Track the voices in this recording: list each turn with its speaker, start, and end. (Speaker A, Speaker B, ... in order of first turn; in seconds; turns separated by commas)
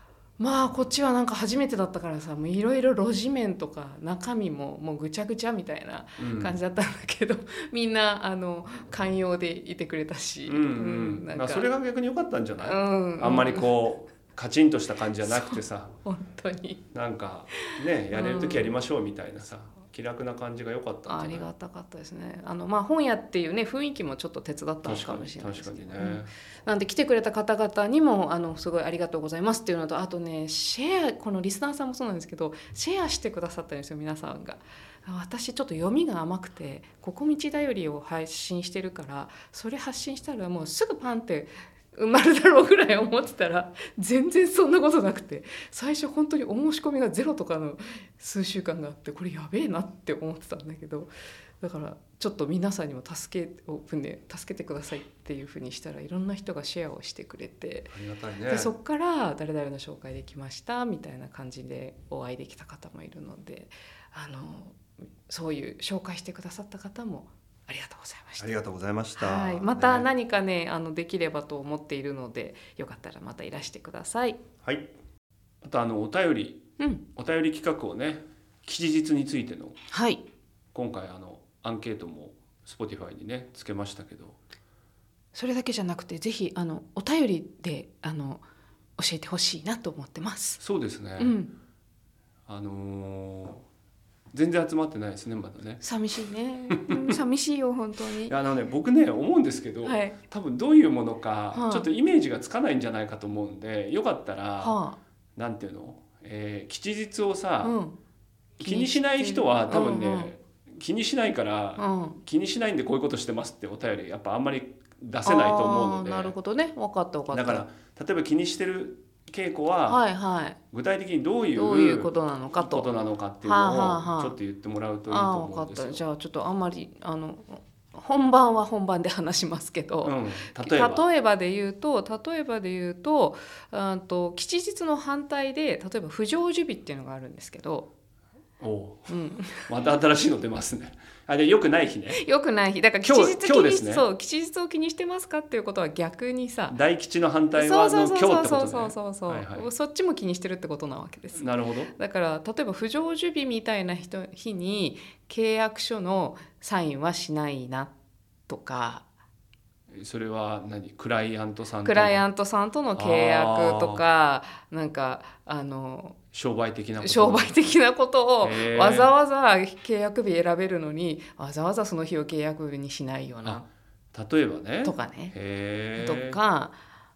Speaker A: 0.4-11.7, Speaker B: 6.2-6.6, Speaker B: 10.5-15.9, Speaker A: 12.6-13.7, Speaker A: 15.2-16.8, Speaker B: 16.9-21.4, Speaker A: 18.1-18.7, Speaker A: 21.1-57.9, Speaker B: 24.8-26.3, Speaker B: 57.9-58.7, Speaker A: 58.5-68.5, Speaker B: 68.4-70.1, Speaker A: 69.2-74.4, Speaker B: 74.6-74.9, Speaker B: 75.6-79.8, Speaker A: 76.8-77.0, Speaker A: 79.9-80.2, Speaker B: 80.7-84.4, Speaker A: 85.3-88.4, Speaker A: 89.0-90.6, Speaker B: 90.6-91.4, Speaker A: 91.2-91.5, Speaker B: 92.5-93.6, Speaker B: 94.3-95.8, Speaker A: 95.8-98.3, Speaker B: 96.7-97.2, Speaker B: 98.2-104.8, Speaker A: 99.8-100.2, Speaker A: 101.5-101.9, Speaker A: 104.6-105.0, Speaker B: 105.3-107.8, Speaker A: 107.6-108.0, Speaker B: 108.6-116.3, Speaker A: 108.6-110.3, Speaker A: 111.8-112.2, Speaker A: 115.2-117.6, Speaker B: 117.3-120.0, Speaker A: 119.9-120.6, Speaker B: 120.7-126.0, Speaker A: 121.5-122.9, Speaker A: 123.4-124.4, Speaker A: 125.1-137.9, Speaker B: 130.0-131.0, Speaker B: 138.6-142.2, Speaker A: 139.1-139.7, Speaker A: 142.2-146.8, Speaker B: 143.0-144.1, Speaker B: 146.7-149.7, Speaker A: 147.5-157.9, Speaker B: 151.3-151.9, Speaker A: 158.5-159.0, Speaker B: 159.9-162.2, Speaker A: 161.8-166.2, Speaker B: 162.9-164.0, Speaker B: 166.3-167.6, Speaker A: 167.0-173.7, Speaker B: 168.4-169.1, Speaker B: 173.4-176.4, Speaker A: 174.8-175.3, Speaker A: 175.9-176.8